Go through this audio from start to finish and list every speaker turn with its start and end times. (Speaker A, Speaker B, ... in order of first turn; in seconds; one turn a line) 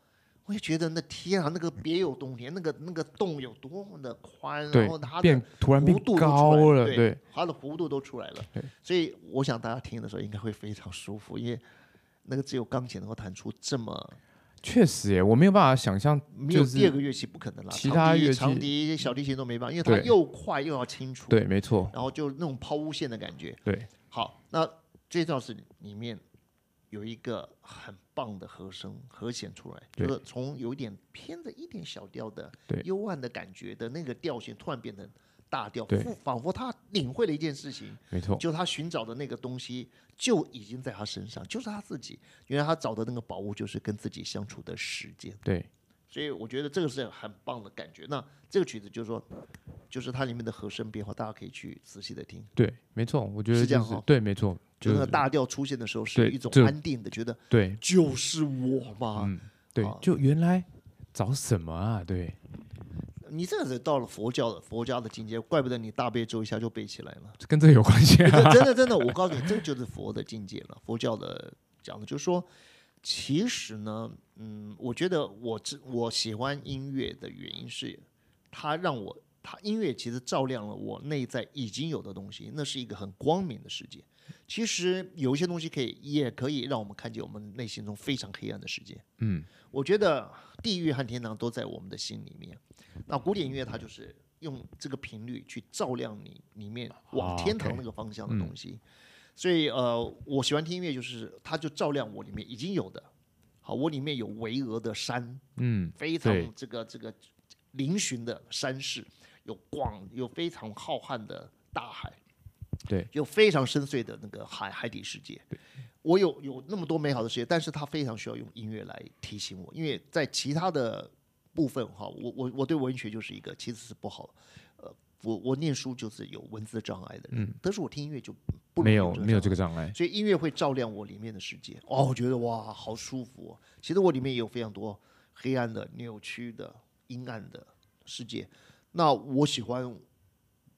Speaker A: 0.5-11.6
Speaker B: 4.7-7.2
Speaker A: 12.2-14.2
Speaker B: 14.6-16.9
Speaker A: 16.3-26.2
Speaker B: 17.7-18.7
Speaker B: 19.9-20.1
Speaker B: 21.3-21.9
Speaker A: 26.9-45.4
Speaker B: 38.1-38.4
Speaker A: 46.1-49.3
Speaker A: 49.9-52.5
Speaker B: 52.5-55.2
Speaker A: 53.5-54.0
Speaker A: 54.8-60.2
Speaker B: 56.1-56.7
Speaker B: 57.5-57.8
Speaker B: 59.2-62.4
Speaker A: 63.2-67.4
Speaker B: 67.4-69.4
Speaker A: 68.2-72.5
Speaker A: 73.0-89.0
Speaker B: 89.2-89.5
Speaker A: 89.7-98.8
Speaker B: 97.1-98.5
Speaker A: 99.3-103.1
Speaker A: 103.6-105.4
Speaker B: 105.6-106.5
Speaker A: 106.0-107.2
Speaker A: 107.7-112.2
Speaker A: 113.1-115.5
Speaker A: 116.0-140.0
Speaker B: 128.8-129.9